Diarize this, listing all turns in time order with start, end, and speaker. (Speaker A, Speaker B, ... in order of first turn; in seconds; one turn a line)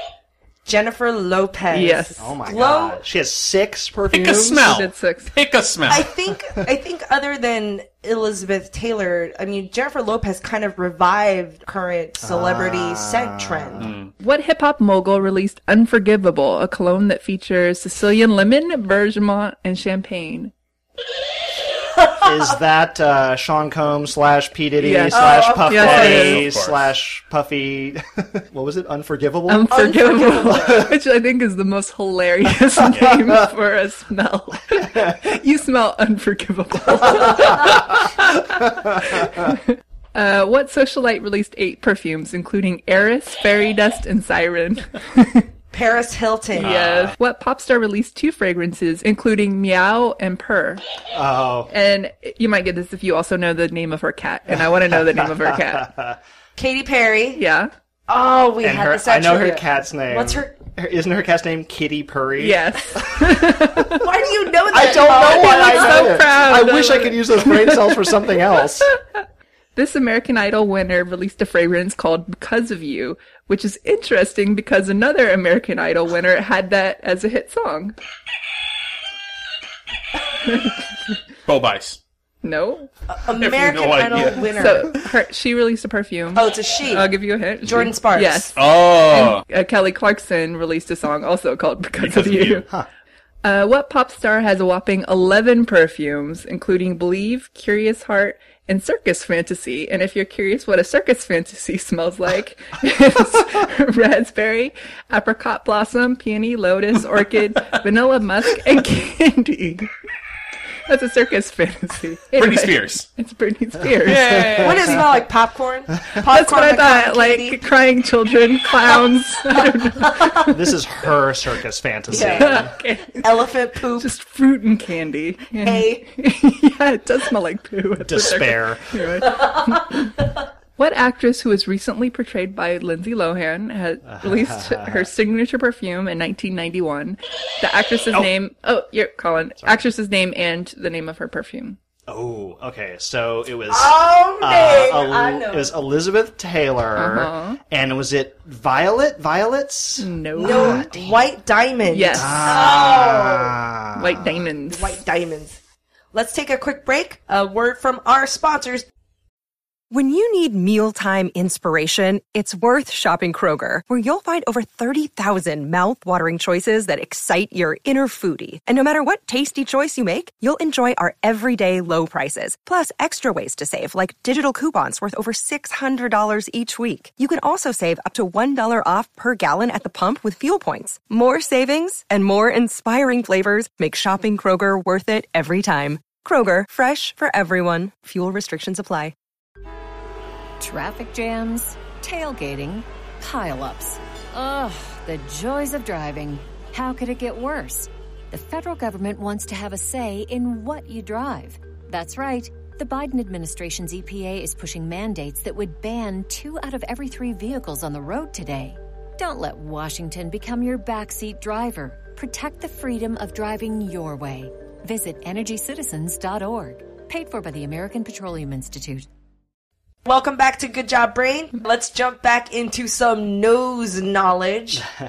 Speaker A: 0.7-3.0
Speaker B: 1.7-2.2
Speaker C: 2.2-4.8
Speaker D: 4.1-6.1
Speaker B: 4.5-5.3
Speaker A: 5.9-13.8
Speaker C: 12.2-14.0
Speaker D: 13.8-14.1
Speaker B: 14.2-20.5
Speaker A: 22.0-22.3
Speaker C: 22.2-29.9
Speaker B: 24.8-26.5
Speaker A: 25.1-25.9
Speaker D: 25.7-26.9
Speaker B: 29.5-45.5
Speaker A: 29.7-30.8
Speaker C: 30.5-30.8
Speaker D: 32.9-33.2
Speaker C: 33.0-33.5
Speaker C: 34.9-35.2
Speaker C: 37.0-37.8
Speaker C: 38.6-39.5
Speaker A: 45.7-46.7
Speaker B: 46.6-50.8
Speaker D: 46.6-47.2
Speaker C: 51.1-51.7
Speaker B: 51.7-55.9
Speaker C: 54.5-56.2
Speaker A: 56.6-57.4
Speaker B: 57.4-57.7
Speaker A: 58.1-60.5
Speaker C: 58.6-63.7
Speaker B: 62.4-64.1
Speaker A: 64.0-66.3
Speaker C: 64.7-68.9
Speaker B: 65.2-69.2
Speaker B: 69.8-78.0
Speaker B: 80.4-80.9
Speaker D: 81.5-82.0
Speaker B: 82.4-82.9
Speaker A: 83.1-84.9
Speaker D: 83.4-84.5
Speaker B: 84.5-92.7
Speaker A: 86.3-88.5
Speaker D: 88.6-89.4
Speaker D: 92.0-92.7
Speaker C: 92.4-92.9
Speaker B: 93.4-109.9
Speaker B: 110.9-115.2
Speaker D: 112.4-113.1
Speaker C: 114.0-115.0
Speaker A: 114.1-117.6
Speaker B: 116.3-120.6
Speaker C: 120.5-122.7
Speaker A: 122.1-122.7
Speaker B: 122.2-123.4
Speaker A: 123.2-124.1
Speaker B: 124.0-141.8
Speaker A: 125.6-126.1
Speaker C: 128.0-129.1
Speaker A: 129.3-130.3
Speaker C: 134.1-135.1
Speaker C: 142.1-151.2
Speaker A: 143.7-145.7
Speaker B: 146.9-147.6
Speaker B: 150.0-150.9
Speaker A: 150.4-153.6
Speaker B: 151.9-152.7
Speaker C: 152.1-154.5
Speaker B: 154.0-155.0
Speaker A: 154.7-155.6
Speaker A: 156.1-158.9
Speaker E: 159.9-189.2
Speaker F: 190.6-219.1
Speaker A: 220.1-224.8